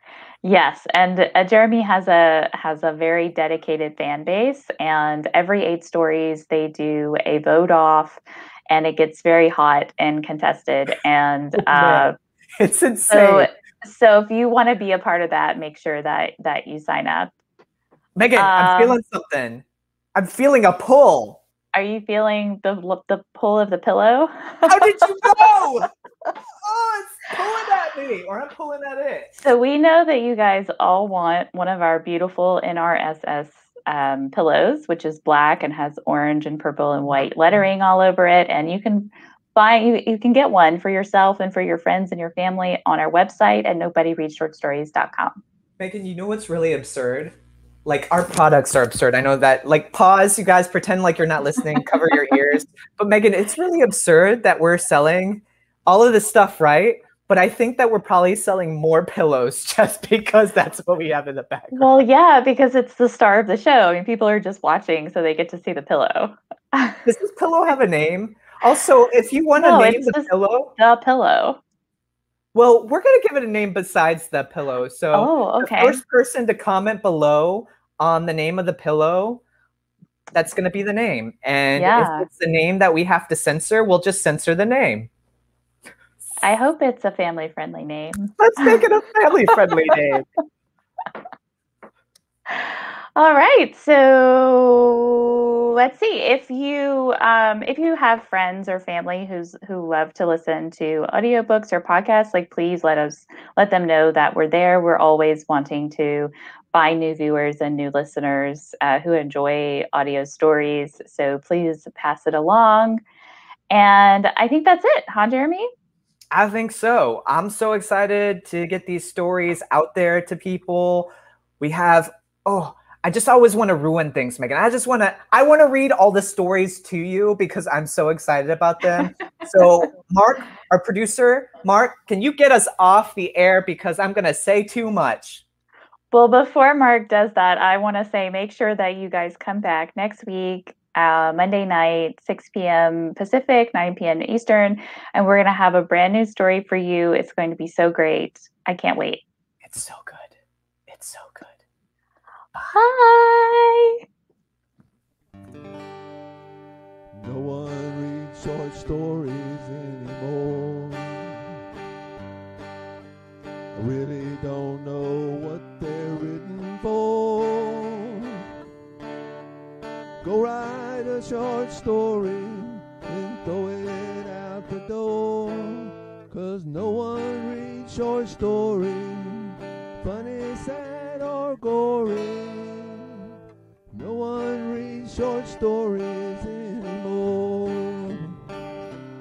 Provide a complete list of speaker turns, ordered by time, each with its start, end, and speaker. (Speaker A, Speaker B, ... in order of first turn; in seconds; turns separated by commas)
Speaker A: 0.4-12.2, Speaker B: 11.6-13.5, Speaker A: 13.1-17.3, Speaker B: 18.2-21.4, Speaker A: 18.4-19.0, Speaker A: 21.7-25.5, Speaker B: 24.7-25.9, Speaker B: 26.6-29.5, Speaker A: 29.4-45.4, Speaker B: 45.8-47.4, Speaker B: 47.9-62.0, Speaker A: 51.8-52.4, Speaker A: 61.7-67.0, Speaker B: 67.0-70.7, Speaker A: 69.5-71.6, Speaker B: 72.5-79.4, Speaker A: 75.1-76.0, Speaker B: 80.3-85.1, Speaker A: 81.8-82.3, Speaker A: 86.4-88.8, Speaker B: 88.4-90.3, Speaker A: 92.5-113.0, Speaker A: 113.7-115.7, Speaker B: 116.3-135.4, Speaker A: 136.1-149.2, Speaker B: 149.6-150.3, Speaker B: 150.9-151.6, Speaker A: 152.6-154.0, Speaker C: 157.2-161.4, Speaker C: 163.7-168.4, Speaker C: 170.2-183.3, Speaker C: 183.9-188.3